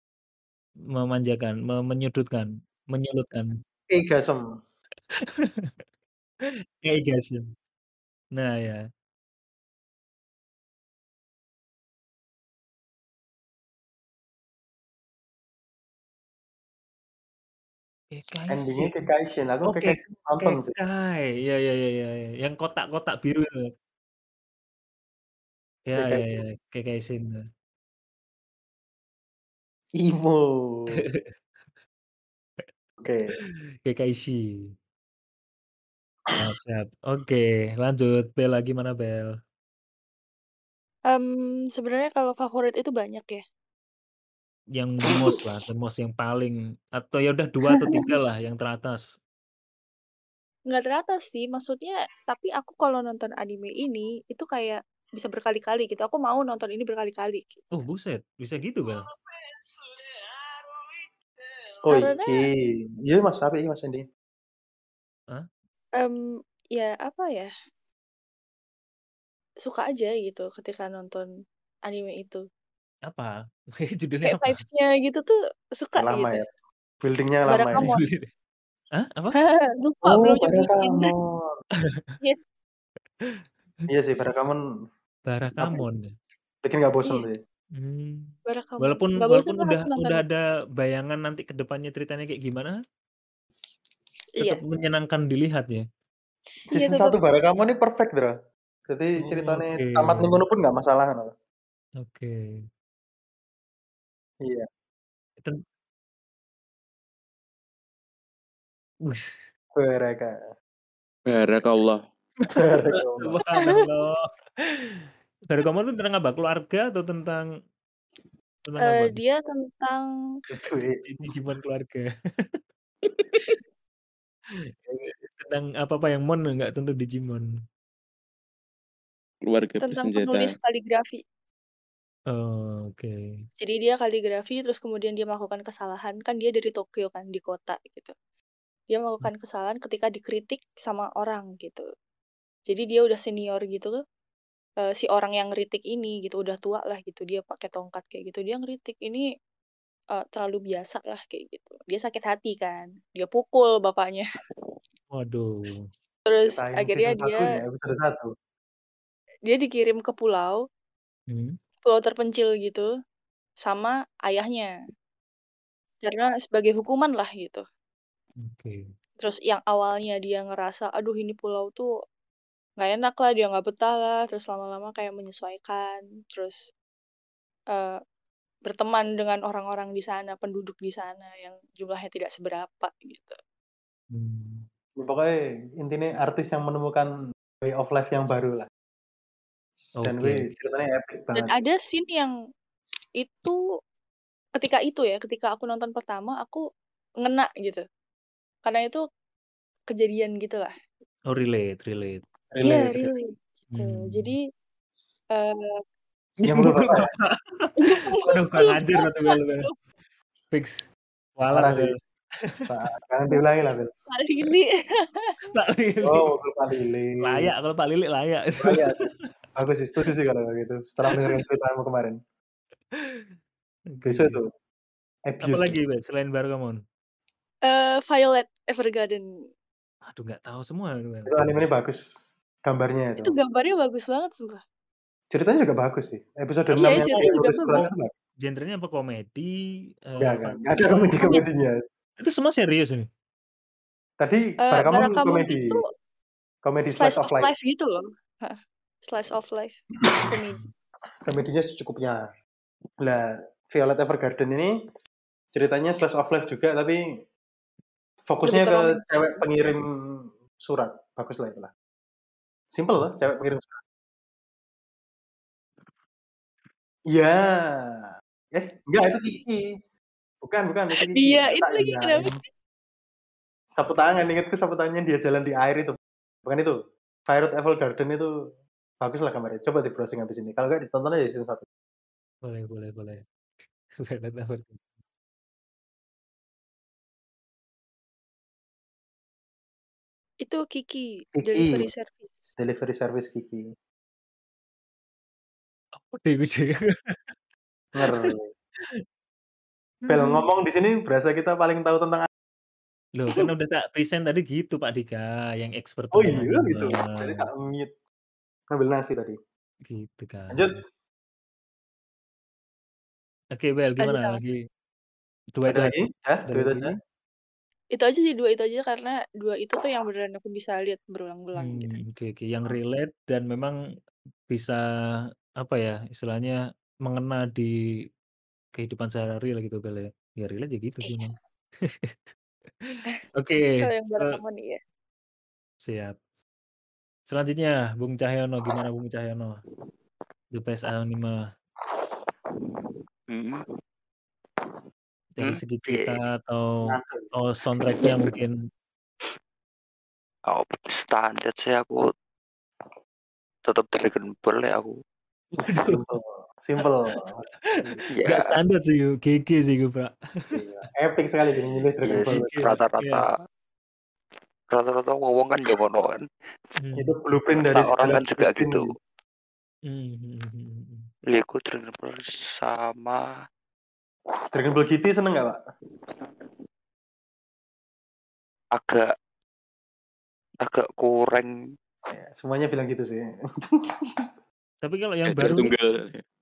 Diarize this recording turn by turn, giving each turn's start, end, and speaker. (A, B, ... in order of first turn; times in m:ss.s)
0:00.9-0:03.6 A
0:03.9-0:04.4 B
0:05.4-0:05.7 A
0:06.8-0:07.5 A
0:08.3-0:08.9 A
0:18.1-0:19.0 A
0:18.5-0:20.8 B
0:19.6-0:23.7 A
0:25.9-0:27.4 A
0:25.9-0:26.3 B
0:30.0-0:31.0 B
0:33.0-0:33.3 B
0:33.8-0:34.7 A
0:36.4-0:39.3 A
0:41.1-0:43.4 C
0:44.7-0:49.0 A
0:47.7-0:48.1 C
0:50.7-0:57.6 C
0:57.7-0:59.1 A
1:01.9-1:02.5 B
1:01.9-1:02.4 C
1:03.0-1:04.0 B
1:06.7-1:07.5 C
1:09.6-1:11.3 C
1:11.9-1:12.4 C
1:13.1-1:14.6 A
1:14.2-1:16.5 C
1:16.0-1:16.5 B
1:17.0-1:17.9 B
1:17.5-1:18.1 C
1:17.7-1:18.3 A
1:19.0-1:19.4 A
1:19.4-1:21.1 C
1:20.0-1:21.6 B
1:21.9-1:22.2 A
1:23.2-1:23.9 A
1:23.9-1:24.6 B
1:25.3-1:26.1 A
1:26.6-1:27.4 B
1:27.8-1:32.8 A
1:28.5-1:30.2 C
1:34.4-1:35.8 A
1:36.7-1:37.2 C
1:36.7-1:38.3 B
1:38.8-1:41.3 B
1:39.2-1:40.4 A
1:42.0-1:42.4 A
1:49.1-1:49.4 A
1:49.7-1:50.4 B
1:51.3-1:52.0 D
1:52.5-1:57.5 A
1:52.6-1:53.4 B
1:53.6-1:53.8 C
1:58.7-1:59.2 A
1:58.8-2:00.1 C
2:00.5-2:01.0 B
2:01.0-2:02.5 A
2:04.6-2:07.5 A
2:09.5-2:10.6 D
2:09.8-2:11.2 C
2:12.3-2:13.2 A
2:13.6-2:18.1 C
2:18.9-2:21.8 C
2:22.7-2:24.0 C
2:24.8-2:29.2 C
2:30.1-2:34.4 C
2:35.1-2:35.8 A
2:36.3-2:37.6 C
2:36.4-2:38.3 B
2:39.5-2:40.6 C
2:41.3-2:41.6 A
2:41.8-2:42.8 C
2:43.6-2:44.7 C
2:46.0-2:47.6 C
2:48.4-2:48.8 A
2:49.2-2:51.9 C
2:52.8-2:56.6 C
2:57.7-2:58.0 C
2:58.6-3:03.4 C
3:04.1-3:04.6 A
3:05.0-3:08.7 B
3:10.0-3:10.5 A
3:10.0-3:11.5 B
3:11.3-3:12.3 C
3:13.2-3:13.6 C
3:14.6-3:16.6 C
3:17.2-3:17.8 C
3:18.6-3:19.0 C
3:19.9-3:20.7 C
3:21.3-3:22.2 A
3:22.5-3:23.1 B
3:22.6-3:24.4 C
3:23.7-3:24.4 A
3:25.3-3:25.7 C
3:26.4-3:29.7 A
3:26.5-3:27.1 B
3:27.8-3:29.7 C
3:30.5-3:32.6 A
3:31.5-3:31.9 B
3:32.7-3:33.9 B
3:34.1-3:35.4 C
3:35.5-3:36.3 A
3:36.0-3:37.5 B
3:37.2-3:39.1 A
3:38.6-3:39.0 B
3:39.6-3:42.2 B
3:42.9-3:43.2 A
3:43.9-3:44.4 A
3:44.0-3:44.5 B
3:45.3-3:45.8 B
3:45.4-3:46.8 A
3:47.6-3:49.2 C
3:50.1-3:51.6 A
3:51.3-3:52.0 B
3:52.6-3:53.4 B
3:53.2-3:54.6 C
3:55.3-3:58.1 B
3:56.7-3:57.9 C
3:56.8-3:57.9 A
3:58.4-3:59.5 A
4:00.1-4:00.6 A
4:00.2-4:01.8 B
4:02.2-4:03.1 A
4:04.2-4:05.7 B
4:04.6-4:05.9 C
4:06.6-4:07.5 B
4:07.0-4:10.6 C
4:10.3-4:10.7 A
4:11.2-4:12.2 B
4:13.0-4:14.7 B
4:15.5-4:17.0 B
4:18.3-4:21.7 B
4:18.4-4:19.4 C
4:22.7-4:23.8 B
4:27.1-4:29.6 B
4:30.4-4:32.3 B
4:30.9-4:32.4 C
4:33.7-4:36.8 B
4:37.3-4:38.3 B
4:39.0-4:41.6 B
4:42.4-4:43.2 A
4:44.0-4:44.8 A
4:50.4-4:52.5 C
4:51.4-4:51.9 B
4:52.6-4:53.6 B
4:56.0-4:57.2 A
4:58.0-4:58.5 B
5:00.1-5:02.3 B
5:00.1-5:00.4 A
5:03.2-5:07.4 A
5:06.1-5:07.9 B
5:08.7-5:09.4 B
5:09.8-5:10.7 A
5:10.5-5:10.8 B
5:13.5-5:14.6 A
5:14.0-5:14.4 C
5:15.6-5:16.0 A
5:15.6-5:16.9 B
5:16.5-5:16.9 A
5:17.9-5:21.9 C
5:21.6-5:23.7 A
5:24.5-5:24.8 A
5:25.6-5:27.7 A
5:28.8-5:32.2 A
5:32.8-5:34.4 A
5:33.8-5:34.8 C
5:35.8-5:36.2 A
5:37.3-5:39.6 A
5:40.5-5:41.4 A
5:42.8-5:43.6 E
5:45.4-5:48.6 A
5:45.4-5:46.2 E
5:46.9-5:47.3 B
5:47.8-5:48.3 E
5:50.5-5:52.1 E
5:53.6-5:54.9 E
5:55.6-5:56.0 A
5:55.9-5:58.0 B
5:58.1-5:58.6 E
5:58.2-6:00.6 A
6:00.5-6:02.6 B
6:02.0-6:03.4 E
6:02.3-6:03.3 A
6:04.7-6:06.2 E
6:06.8-6:07.1 A
6:07.0-6:08.8 B
6:07.5-6:08.9 E
6:09.9-6:11.1 A
6:11.3-6:13.2 E
6:14.5-6:15.6 B
6:16.2-6:16.5 E
6:18.8-6:19.1 E
6:20.6-6:21.5 E
6:22.1-6:23.9 B
6:24.8-6:25.7 A
6:25.2-6:26.2 D